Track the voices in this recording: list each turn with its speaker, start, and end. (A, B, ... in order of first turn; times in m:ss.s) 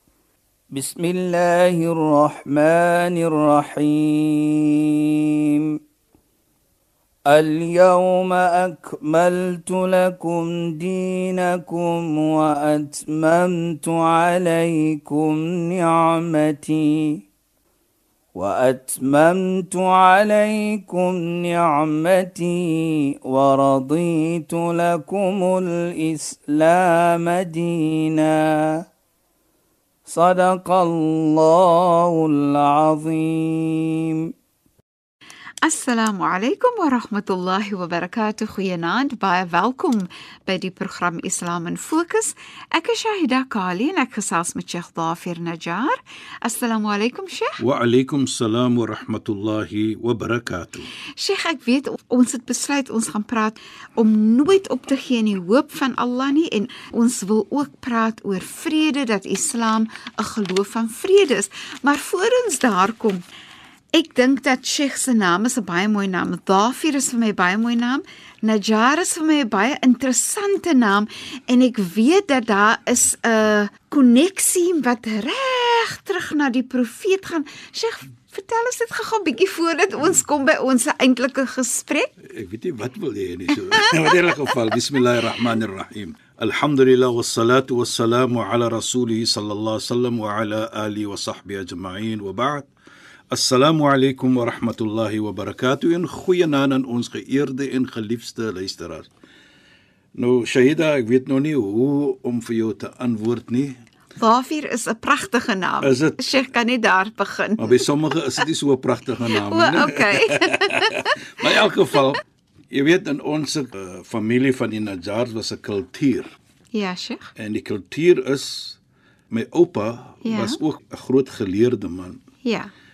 0:00.7-0:05.7 A
0:07.3-0:17.2 A
0:18.3-0:28.8 A
0:30.0-0:34.3 A
0:35.6-0:47.6 B
0:47.6-0:50.9 C
0:51.2-1:03.2 B
1:03.9-1:22.1 B
1:22.2-1:32.7 C
1:23.8-1:24.1 B
1:33.3-1:39.1 C
1:40.2-1:43.8 C
1:44.2-1:47.9 B
1:45.8-1:46.2 C
1:47.6-1:56.3 C
1:49.3-1:51.5 B
1:56.7-1:57.3 B
1:57.3-1:58.8 C
1:59.3-2:02.2 C
2:00.2-2:00.6 B
2:02.4-2:02.7 B